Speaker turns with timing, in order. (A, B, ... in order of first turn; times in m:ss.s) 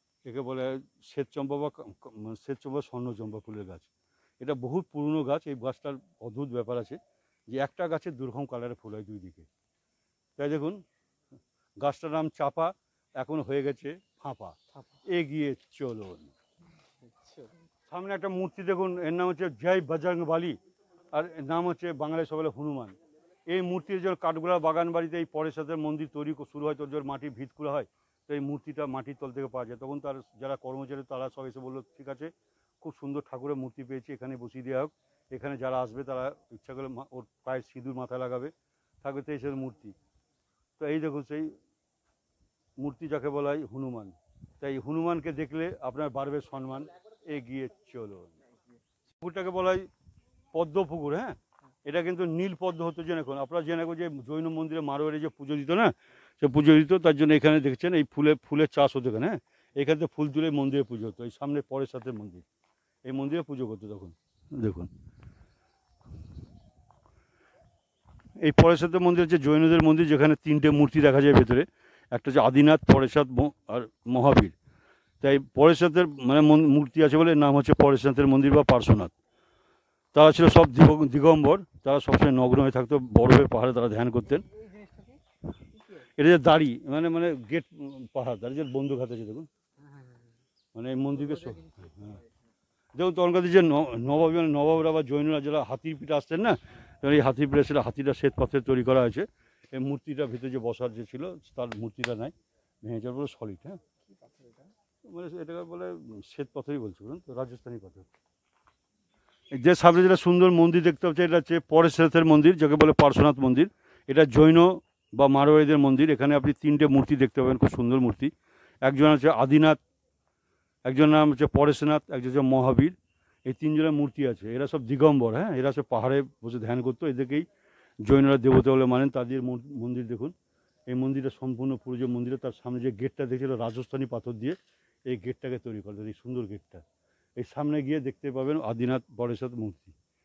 0:00.2-0:07.0 A
0:07.5-0:09.5 A
0:10.4-0:10.8 A
0:11.8-0:16.3 A
0:14.7-0:15.0 B
0:17.0-0:17.5 B
0:17.9-0:20.6 A
0:21.1-0:23.0 A
0:23.5-0:40.0 A
0:40.8-0:41.6 A
0:42.8-0:48.3 A
0:49.2-0:49.9 A
0:50.5-1:02.4 A
1:03.0-1:04.9 A
1:08.4-1:14.6 A
1:15.2-1:19.1 A
1:20.1-1:24.4 A
1:24.3-1:25.2 B
1:25.7-1:26.1 B
1:26.2-1:29.5 A
1:29.8-1:30.3 B
1:30.8-1:32.2 A
1:31.1-1:32.3 B
1:33.0-1:43.8 A
1:44.1-1:44.7 B
1:45.0-1:48.1 A
1:49.5-1:58.3 A
1:58.8-1:59.8 A
2:00.8-2:03.0 A
2:03.5-2:07.5 A
2:08.0-2:10.3 A
2:10.9-2:16.8 A
2:17.4-2:20.0 A